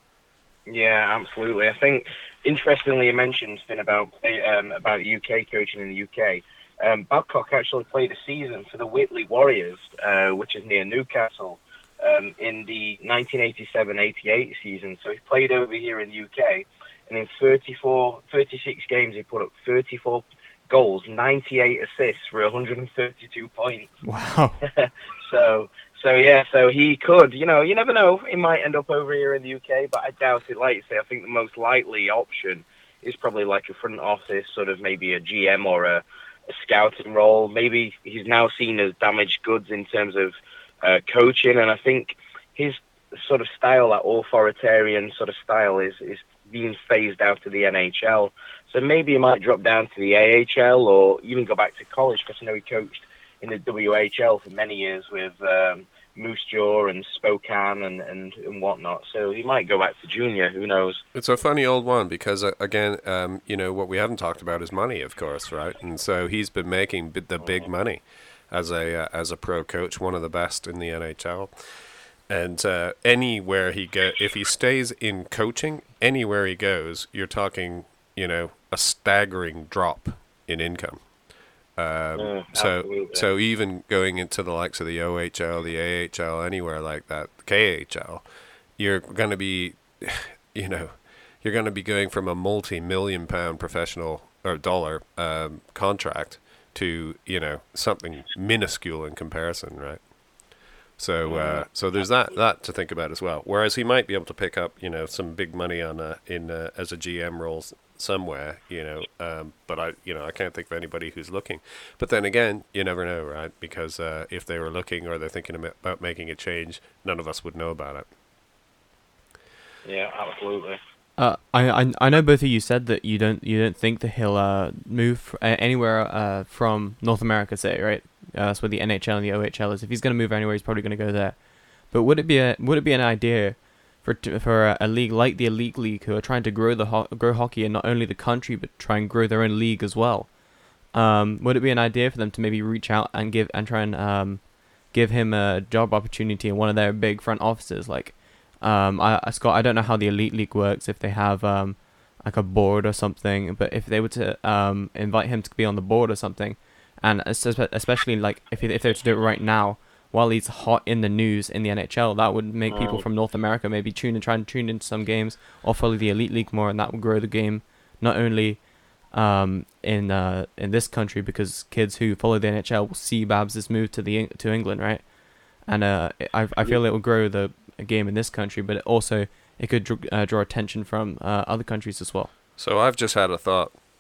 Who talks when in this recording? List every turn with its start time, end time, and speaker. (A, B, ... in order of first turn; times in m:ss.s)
0:00.7-0:23.9 A
0:24.0-0:24.6 B
0:24.6-1:01.0 A
1:01.1-1:11.5 C
1:12.3-1:21.0 C
1:21.8-1:28.2 C
1:22.2-1:23.2 A
1:28.8-1:40.0 C
1:41.0-1:58.1 C
1:41.2-1:41.6 A
1:59.8-2:00.8 A
2:01.2-2:20.4 B
2:20.9-2:55.1 B
2:42.7-2:43.0 A
2:55.6-3:02.3 B
3:02.6-3:03.7 C